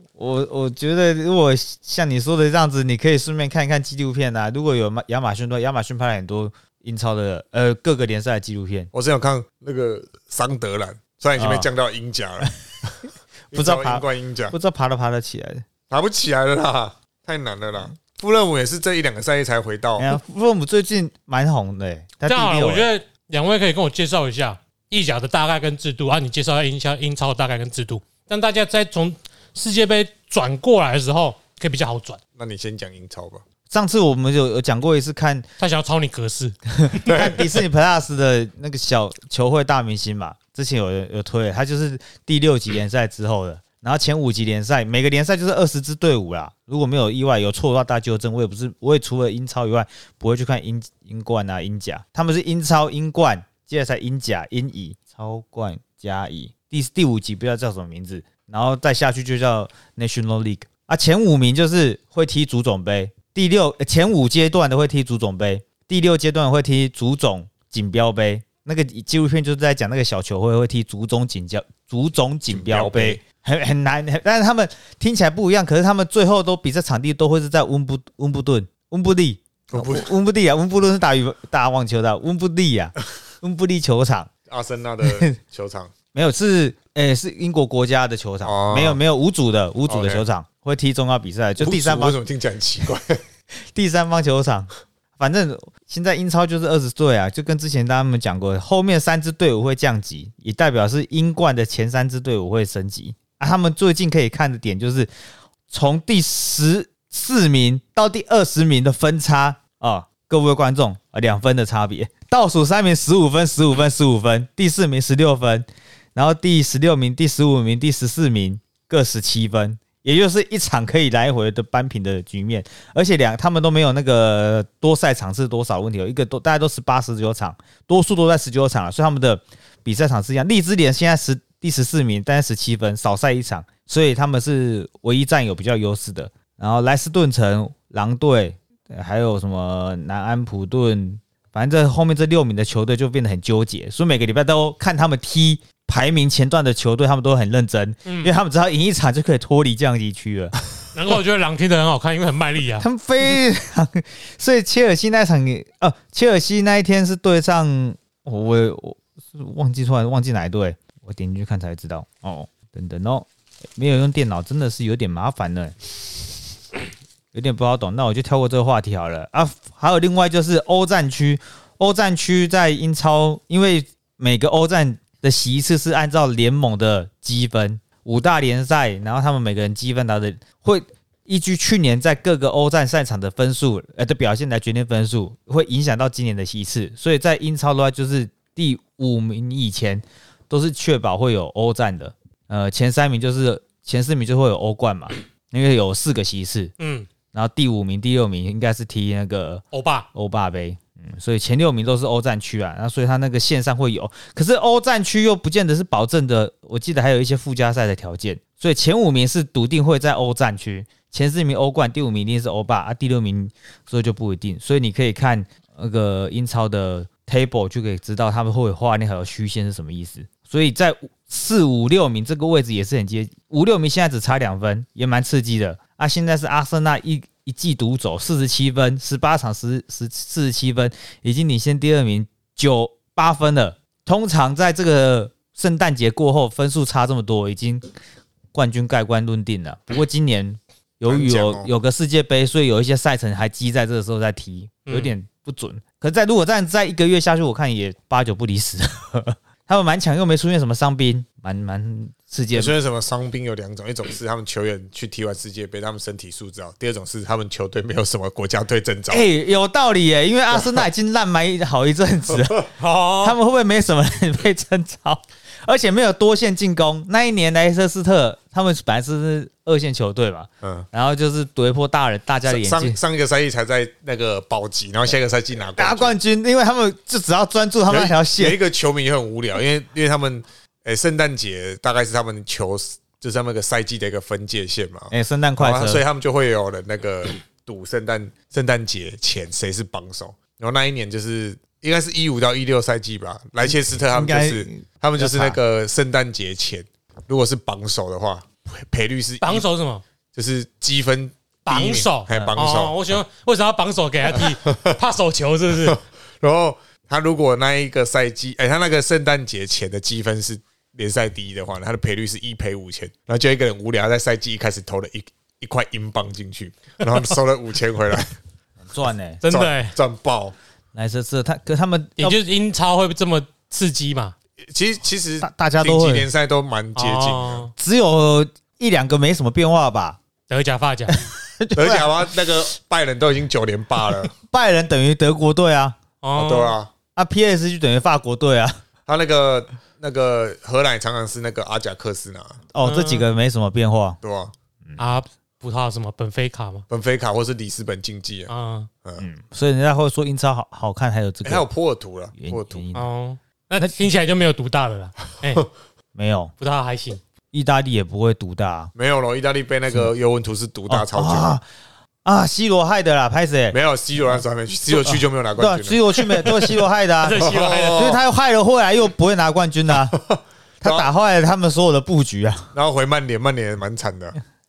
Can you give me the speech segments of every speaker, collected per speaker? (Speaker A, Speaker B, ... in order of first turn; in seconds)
Speaker A: 0.2-8.9, 11.4-11.7, 13.5-15.7, 20.0-22.9, 33.7-35.4, 36.8-84.3, 85.0-85.4, 86.1-92.2, 93.7-105.1, 105.7-150.6, 152.8-165.8, 167.3-196.7, 197.3-199.6, 200.1-237.9, 238.5-252.7, 259.1-262.7, 263.2-273.0, 275.8-278.6, 285.1-286.0, 294.1-295.6, 302.3-302.6, 318.9-319.4, 320.9-322.4, 325.4-326.3, 327.8-330.2, 331.1-332.3, 334.4-336.0, 337.1-338.8, 342.7-344.2, 349.2-351.7, 352.4-353.1, 356.1-356.5, 357.5-358.9, 360.9-361.6, 362.2-363.8, 364.9-370.2, 370.8-372.7
Speaker B: 8.9-12.9, 13.5-14.5, 15.9-20.1, 32.4-33.4, 37.1-37.6, 72.5-73.2, 79.7-80.1, 84.5-85.9, 88.4-89.0, 89.9-90.2, 91.6-93.2, 241.1-241.7, 252.5-259.3, 260.6-260.8, 270.6-270.9, 272.5-276.2, 277.9-299.7, 300.3-303.0, 304.3-305.0, 305.7-318.3, 319.5-320.6, 324.6-327.7, 331.8-334.3, 336.3-336.9, 339.1-342.6, 344.2-344.5, 346.9-348.5, 351.4-352.8, 358.9-361.6, 363.7-366.6, 367.4-368.2, 370.1-371.1, 372.7-374.3
Speaker C: 22.3-32.2, 35.6-37.1, 148.1-148.3, 150.9-152.8, 196.8-197.1, 199.7-200.1, 262.8-263.4, 299.4-300.0, 301.7-306.0, 319.4-319.9, 322.2-324.3, 326.9-327.7, 330.5-331.2, 336.2-336.8, 342.8-343.2, 345.0-346.8, 348.5-348.9, 352.9-355.7, 356.6-357.2, 367.2-368.2